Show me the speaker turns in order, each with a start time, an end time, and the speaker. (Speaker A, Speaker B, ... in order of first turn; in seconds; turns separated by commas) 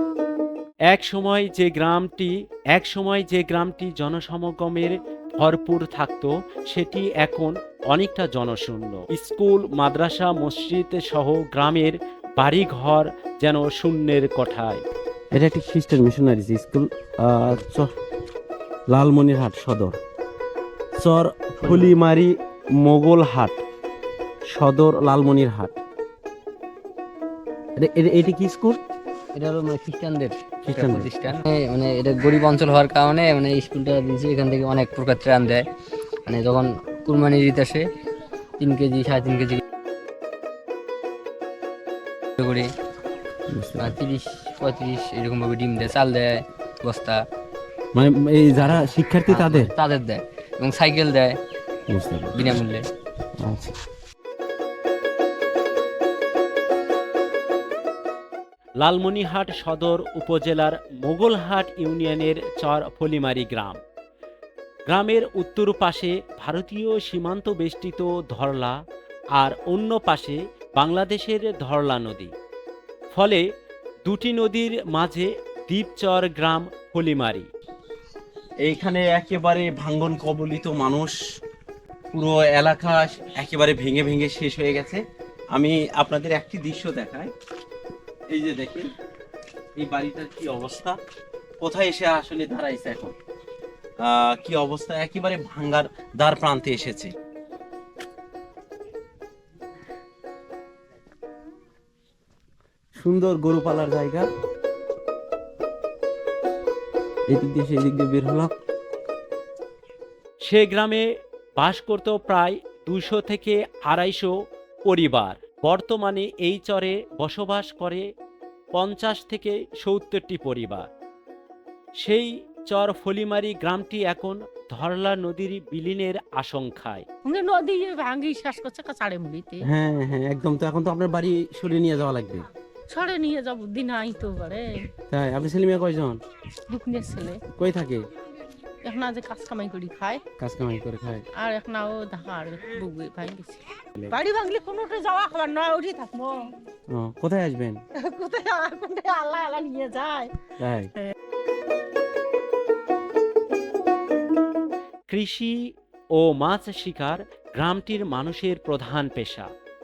Speaker A: 0.9-14.8, Speaker B: 15.3-17.9, Speaker B: 18.9-20.0, Speaker B: 21.0-23.6, Speaker B: 24.5-25.8, Speaker B: 27.8-28.8, Speaker C: 29.4-35.6, Speaker B: 30.6-31.4, Speaker C: 36.3-37.9, Speaker C: 38.6-39.6, Speaker C: 42.4-42.7, Speaker B: 43.5-43.9, Speaker C: 43.8-47.3, Speaker B: 48.0-49.8, Speaker C: 49.3-51.4, Speaker B: 51.9-52.6, Speaker C: 52.4-52.8, Speaker B: 53.4-53.7, Speaker A: 58.8-63.8, Speaker A: 64.9-68.8, Speaker A: 69.4-72.3, Speaker A: 73.1-73.5, Speaker A: 74.0-77.5, Speaker B: 78.6-81.2, Speaker B: 82.1-85.0, Speaker B: 85.5-87.3, Speaker B: 88.3-88.9, Speaker B: 89.8-91.0, Speaker B: 91.6-93.1, Speaker B: 94.0-97.1, Speaker B: 103.0-104.3, Speaker B: 107.3-108.6, Speaker A: 110.4-114.4, Speaker A: 114.9-118.1, Speaker A: 118.8-120.9, Speaker A: 122.0-127.1, Speaker D: 127.2-129.7, Speaker B: 129.7-132.4, Speaker D: 132.9-134.8, Speaker B: 135.1-136.2, Speaker D: 136.7-137.4, Speaker B: 137.6-138.1, Speaker D: 138.8-140.2, Speaker B: 140.4-141.2, Speaker D: 141.4-146.5, Speaker B: 146.9-147.8, Speaker D: 147.9-150.3, Speaker B: 150.6-150.9, Speaker A: 155.1-155.6, Speaker A: 156.1-159.5